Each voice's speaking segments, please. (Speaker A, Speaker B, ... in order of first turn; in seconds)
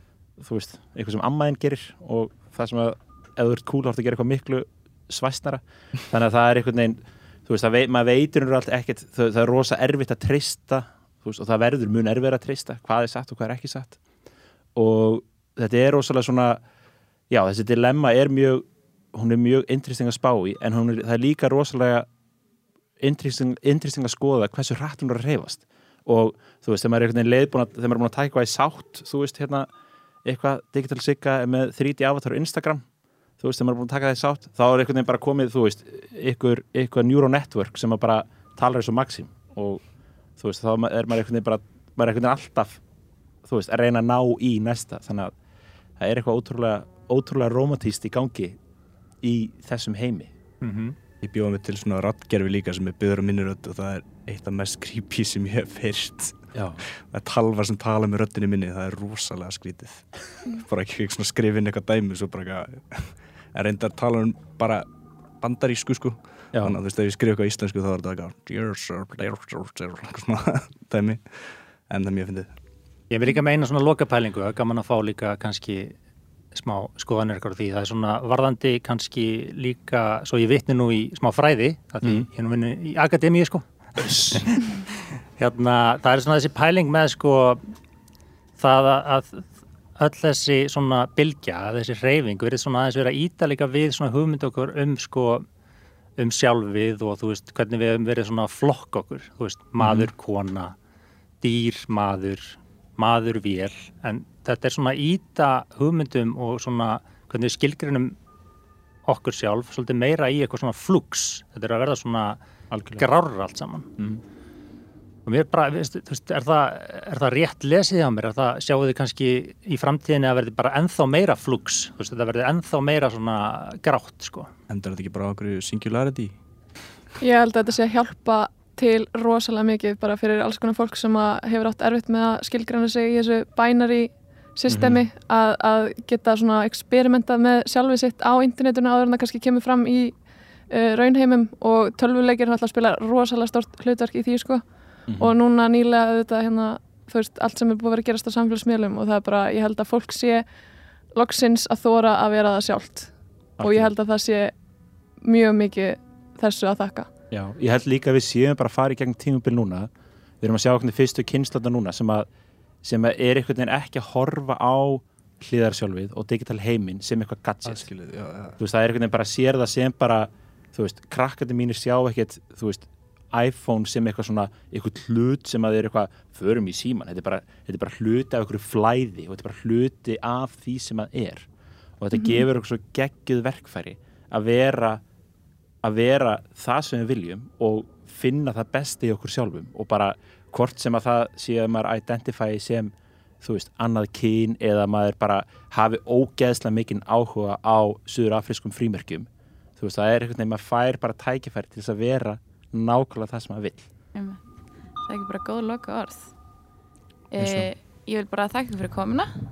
Speaker A: 0.4-14.0, 14.7-16.6, 17.3-22.1, 23.0-29.7, 30.2-32.9, 33.4-39.8, 40.4-42.8, 43.4-45.3, 46.0-48.6, 49.2-50.3, 56.5-56.8, 84.0-84.4, 99.8-100.1, 112.7-113.0, 134.7-135.0, 145.1-145.3, 153.6-153.9, 157.3-159.9, 160.4-162.3, 162.8-167.9, 168.6-181.5, 182.0-185.0, 185.8-203.9
Speaker B: 50.6-51.0, 73.1-75.9, 76.5-84.6, 85.4-87.6, 88.6-95.4, 96.2-100.7, 101.4-108.2, 109.0-112.4, 113.0-113.9, 115.2-124.5
Speaker C: 51.2-64.9, 65.4-72.5, 124.7-126.3, 167.7-168.6
Speaker D: 127.2-140.1, 140.7-144.6, 145.2-150.4, 151.2-154.5, 155.2-157.1, 182.2-182.4
Speaker E: 204.1-204.4, 205.0-206.3, 207.3-209.3